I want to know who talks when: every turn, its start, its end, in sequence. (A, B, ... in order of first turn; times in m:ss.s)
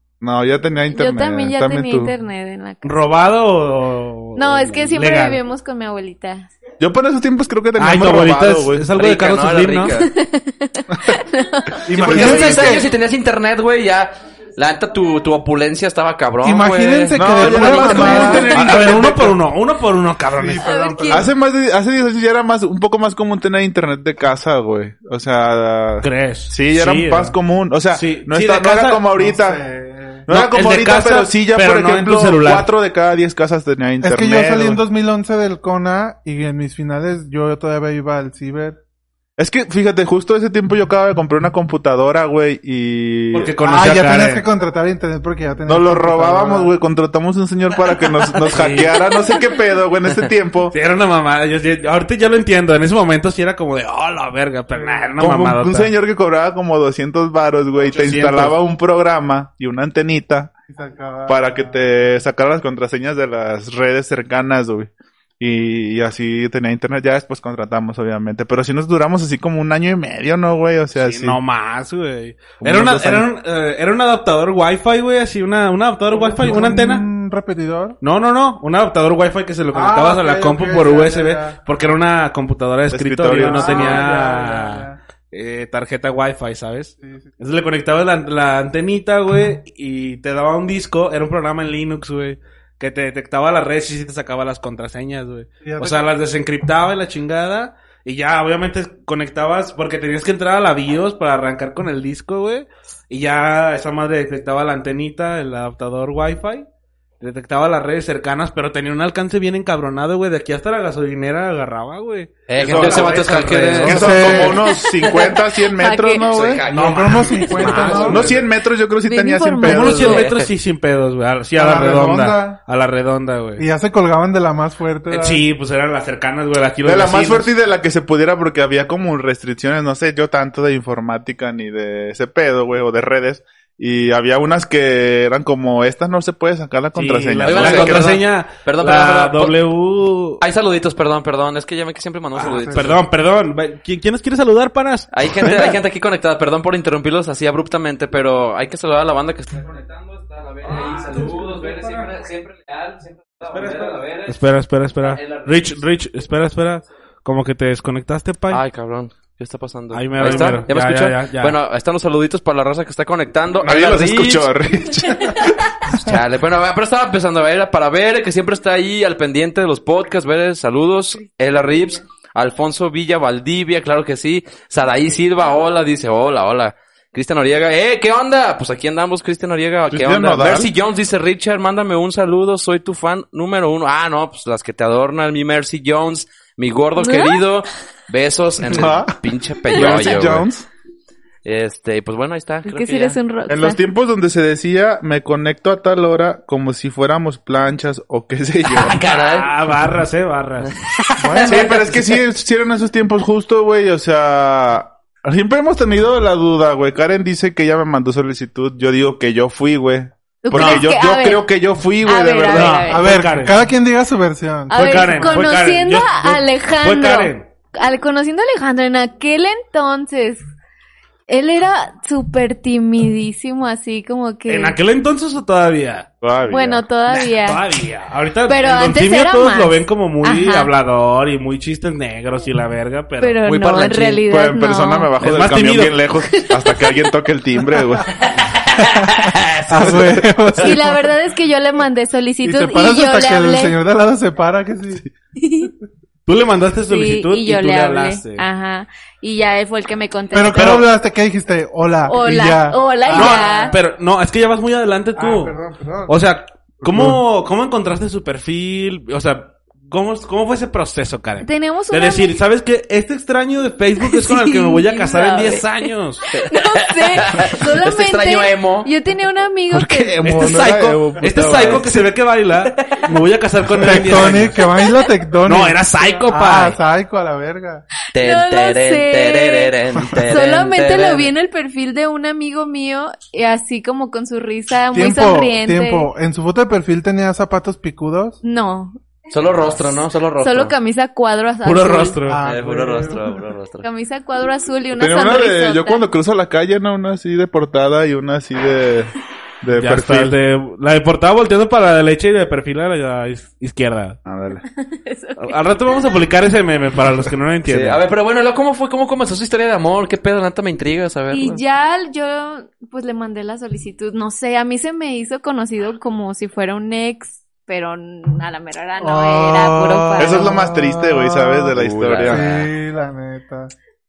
0:00.2-0:02.1 A
0:00.9-0:03.0 B
0:02.8-0:05.4 C
0:04.4-0:06.5 B
0:06.8-0:08.9 A
0:07.8-0:10.0 C
0:08.9-0:10.1 D
0:10.1-0:11.8 B
0:11.8-0:12.9 E
0:11.9-0:12.8 A
0:11.9-0:18.4 D
0:12.2-0:12.6 C
0:16.4-0:19.2 E
0:17.1-0:19.4 A
0:17.5-0:20.8 C
0:18.2-0:18.5 B
0:20.3-0:21.3 E
0:20.6-0:21.3 B
0:21.1-0:29.6 A
0:26.0-0:27.3 C
0:27.9-0:29.0 C
0:29.1-0:30.3 E
0:30.3-0:34.8 A
0:30.3-0:32.7 C
0:34.0-0:38.8 E
0:39.4-0:43.5 A
0:43.3-0:44.4 C
0:43.6-0:46.7 E
0:45.6-0:50.7 A
0:48.5-0:48.9 C
0:50.7-0:55.9 C
0:54.8-0:55.1 E
0:55.2-1:00.5 A
0:57.8-0:58.6 C
1:00.7-1:01.8 E
1:01.3-1:11.4 A
1:11.0-1:17.0 C
1:12.6-1:13.3 A
1:16.1-1:18.0 E
1:18.0-1:46.6 C
1:19.7-1:21.6 E
1:22.9-1:24.0 A
1:23.3-1:25.0 E
1:27.0-1:27.3 E
1:35.6-1:36.1 E
1:47.2-1:54.5 C
1:52.5-1:55.2 D
1:52.6-1:56.6 A
1:53.8-1:54.6 E
1:55.0-1:56.3 B
1:56.3-1:58.3 D
1:56.7-1:58.3 C
1:56.7-1:58.4 E
1:58.0-2:00.3 A
1:59.0-2:00.3 B
1:59.6-2:03.6 C
2:00.2-2:00.5 D
2:01.6-2:02.6 E
2:03.6-2:05.4 E
2:05.1-2:07.5 C
2:06.8-2:18.2 A
2:16.9-2:20.4 C
2:17.4-2:19.5 D
2:20.4-2:23.0 D
2:22.4-2:25.8 C
2:22.4-2:22.9 E
2:25.1-2:34.4 D
2:30.6-2:32.1 C
2:33.5-2:38.6 C
2:35.0-2:35.8 D
2:38.5-2:44.5 D
2:39.9-2:41.6 C
2:43.6-2:45.6 A
2:45.9-3:10.4 D
2:59.9-3:00.7 A
3:07.0-3:07.4 B
3:08.7-3:09.1 A
3:09.7-3:10.7 A
3:11.4-3:13.2 D
3:12.6-3:13.8 B
3:13.5-3:19.0 A
3:18.7-3:19.7 D
3:19.0-3:20.7 C
3:20.7-3:22.1 D
3:21.2-3:21.7 E
3:21.4-3:32.9 A
3:30.4-3:31.4 B
3:30.5-3:30.8 C
3:32.0-3:33.1 B
3:32.5-3:33.6 C
3:32.9-3:35.5 E
3:34.7-3:40.4 B
3:34.7-3:37.5 C
3:41.3-3:44.8 B
3:44.5-3:46.1 C
3:46.2-3:46.8 A
3:46.5-3:47.7 B
3:47.1-3:53.4 C
3:48.5-3:50.7 B
3:53.2-3:55.1 B
3:53.4-3:54.2 D
3:54.2-3:58.2 A
3:55.2-3:55.9 C
3:56.4-3:56.9 B
3:58.2-4:00.0 D
3:58.9-4:01.1 E
4:00.6-4:03.8 B
4:02.4-4:05.1 E
4:05.4-4:05.7 B
4:06.2-4:08.4 C
4:06.9-4:10.8 B
4:10.3-4:13.8 E
4:10.5-4:10.9 C
4:12.0-4:13.7 B
4:13.1-4:26.3 C
4:15.2-4:16.2 E
4:16.8-4:17.2 E
4:21.4-4:22.4 B
4:24.0-4:30.5 B
4:26.3-4:28.9 D
4:29.7-4:31.9 A
4:30.2-4:34.6 C
4:31.4-4:31.9 D
4:32.7-4:33.0 D
4:33.8-4:37.8 E
4:34.8-4:35.1 B
4:35.4-4:36.8 C
4:38.1-4:41.3 D
4:38.1-4:46.1 B
4:44.9-4:48.4 E
4:48.4-4:49.0 B
4:49.3-4:50.7 D
4:50.4-4:52.2 B
4:51.6-4:52.4 C
4:52.2-4:53.4 E
4:52.4-4:53.8 D
4:53.8-4:56.0 B
4:54.9-5:00.4 A
4:59.8-5:04.2 C
5:04.2-5:04.6 A
5:04.8-5:06.1 B
5:05.4-5:08.0 C
5:07.6-5:11.6 D
5:11.3-5:20.6 B
5:19.0-5:21.7 E
5:20.2-5:22.5 A
5:21.8-5:22.7 D
5:22.2-5:23.7 E